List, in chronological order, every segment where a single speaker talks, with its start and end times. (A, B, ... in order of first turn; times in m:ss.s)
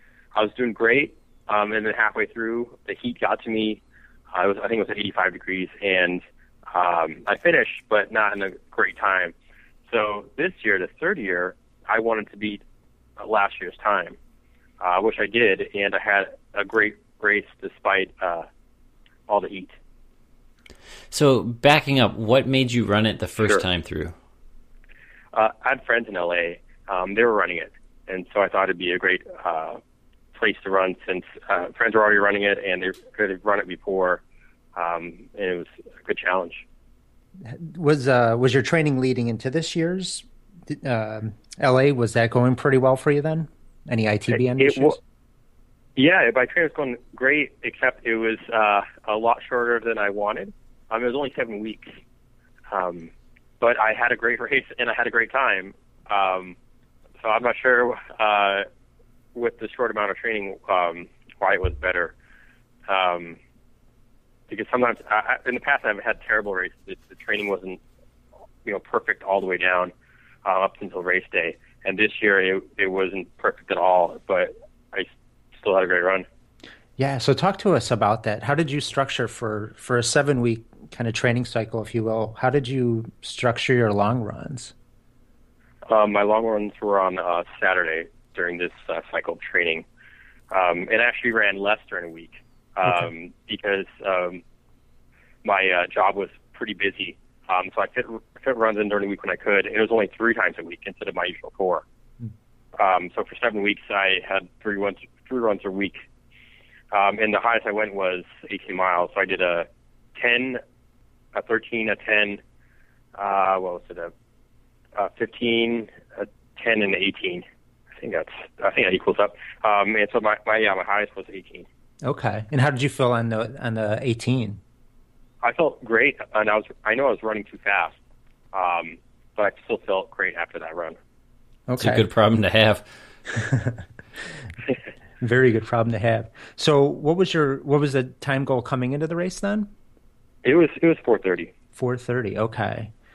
0:00.3-0:03.8 A
0:04.3-0:06.2 A
0:06.7-0:09.3 A
0:09.9-0:12.6 A
0:13.2-0:14.2 A
0:14.8-0:18.4 A
0:19.3-0:19.7 A
0:21.1-0:24.1 B
0:25.3-0:29.8 A
0:30.3-0:34.2 A
0:34.8-0:36.6 A
0:37.4-0:45.0 C
0:44.5-0:45.0 A
0:46.0-0:51.9 A
0:52.7-0:56.6 A
0:57.2-0:58.6 A
0:59.3-1:02.1 A
1:02.9-1:03.4 A
1:04.5-1:07.8 A
1:08.6-1:09.9 A
1:10.4-1:16.2 A
1:17.0-1:24.7 C
1:25.9-1:29.8 A
1:30.5-1:34.4 A
1:35.4-1:41.8 A
1:42.8-1:46.0 A
1:46.9-1:50.6 A
1:51.3-1:52.4 A
1:53.2-1:54.1 A
1:55.0-1:57.4 A
1:58.0-2:01.7 A
2:02.0-2:04.6 C
2:05.4-2:08.0 A
2:08.5-2:11.0 A
2:11.7-2:12.0 C
2:11.8-2:12.8 B
2:13.3-2:13.8 C
2:15.2-2:19.7 C
2:20.4-2:21.5 A
2:21.8-2:22.9 C